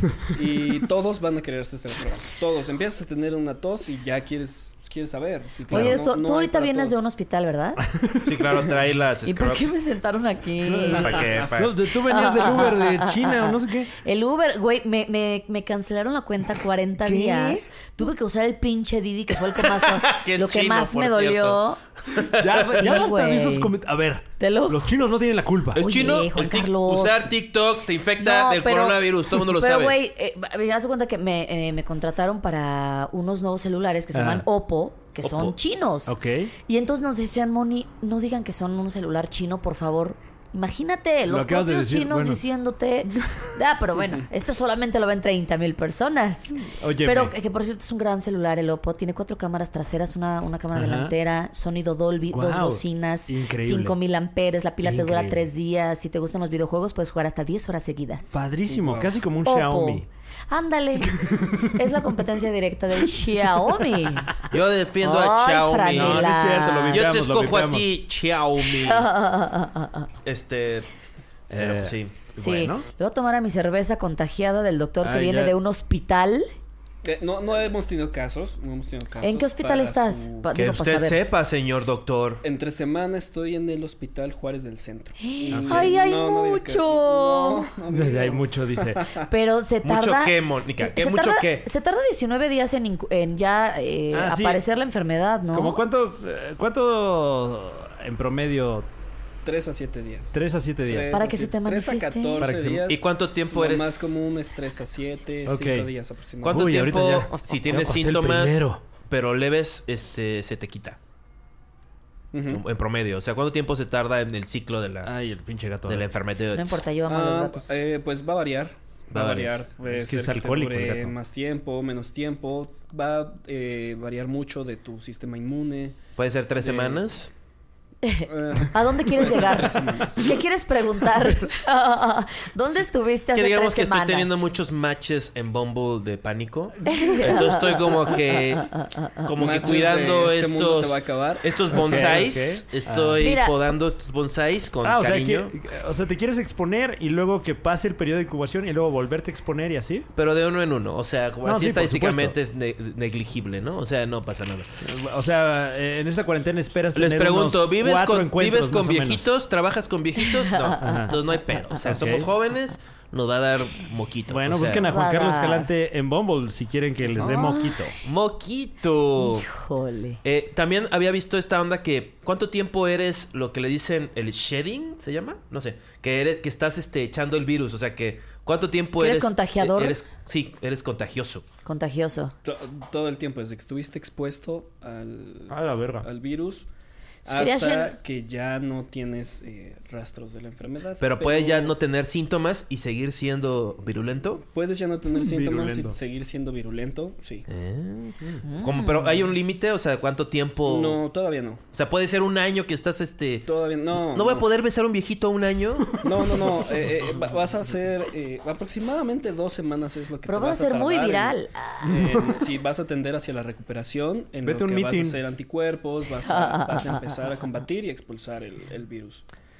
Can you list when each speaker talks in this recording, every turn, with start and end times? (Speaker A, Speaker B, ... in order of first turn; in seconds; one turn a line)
Speaker A: 0.2-6.9
Speaker B: 5.7-6.0
Speaker C: 5.7-7.8
Speaker B: 7.9-8.3
Speaker D: 8.2-9.7
Speaker C: 9.2-11.2
Speaker B: 10.6-13.9
Speaker D: 11.0-11.8
Speaker C: 12.0-21.8
Speaker B: 17.0-17.6
Speaker D: 19.8-23.0
Speaker B: 22.3-25.8
Speaker C: 22.7-23.7
Speaker C: 24.4-24.9
Speaker D: 25.7-30.0
Speaker C: 25.8-27.3
Speaker C: 28.2-36.1
Speaker B: 34.1-34.4
Speaker D: 35.2-35.6
Speaker B: 36.1-36.5
Speaker C: 36.7-58.3
Speaker B: 41.3-42.4
Speaker B: 46.7-47.3
Speaker B: 50.7-51.1
Speaker B: 52.3-53.9
Speaker B: 54.8-55.4
Speaker B: 58.3-60.1
Speaker A: 58.7-59.1
Speaker C: 59.4-64.4
Speaker B: 61.1-61.8
Speaker D: 64.5-66.3
Speaker C: 65.0-67.0
Speaker B: 65.9-67.9
Speaker D: 66.9-69.1
Speaker C: 68.7-70.1
Speaker D: 70.2-70.9
Speaker B: 71.5-72.8
Speaker D: 71.6-72.2
Speaker C: 72.4-76.5
Speaker B: 75.0-75.5
Speaker A: 77.0-80.5
Speaker C: 79.2-81.2
Speaker D: 80.5-82.4
Speaker A: 82.4-89.3
Speaker C: 85.2-87.7
Speaker B: 85.5-85.9
Speaker B: 87.9-89.0
Speaker C: 89.3-95.8
Speaker D: 89.8-91.7
Speaker B: 94.1-94.6
Speaker B: 95.5-98.9
Speaker A: 99.4-106.9
Speaker B: 100.3-101.2
Speaker C: 101.1-102.5
Speaker B: 102.4-102.9
Speaker D: 102.9-104.1
Speaker B: 105.5-105.9
Speaker D: 106.4-111.0
Speaker B: 106.5-108.8
Speaker A: 112.3-112.6
Speaker D: 112.5-115.1
Speaker B: 115.0-116.1
Speaker D: 115.9-116.8
Speaker C: 116.5-117.7
Speaker A: 117.1-126.0
Speaker D: 119.1-119.5
Speaker B: 119.8-121.1
Speaker D: 126.2-127.3
Speaker A: 126.6-127.0
Speaker C: 128.0-134.4
Speaker A: 128.3-130.4
Speaker D: 133.3-145.5
Speaker C: 136.8-139.3
Speaker A: 139.3-142.2
Speaker B: 141.7-143.2
Speaker C: 143.2-143.6
Speaker B: 144.8-150.1
Speaker D: 150.2-154.7
Speaker B: 151.4-152.4
Speaker B: 154.8-159.2
Speaker D: 156.9-164.9
Speaker C: 160.2-161.2
Speaker B: 160.8-162.3
Speaker B: 164.3-167.9
Speaker C: 164.8-165.7
Speaker C: 167.2-168.0
Speaker D: 168.0-169.5
Speaker C: 169.2-170.2
Speaker D: 170.2-181.4
Speaker C: 179.0-180.0
Speaker C: 181.7-182.3
Speaker A: 182.4-186.7
Speaker B: 185.5-186.1
Speaker C: 187.2-187.9
Speaker A: 187.2-191.7
Speaker D: 191.0-194.4
Speaker A: 194.4-197.5
Speaker B: 195.2-196.0
Speaker D: 197.5-201.0
Speaker C: 198.4-199.3
Speaker A: 200.7-201.6
Speaker D: 201.7-206.0
Speaker A: 203.4-204.4
Speaker A: 206.0-219.2
Speaker C: 210.3-211.9
Speaker B: 211.8-212.2
Speaker B: 214.4-215.2
Speaker C: 216.2-217.2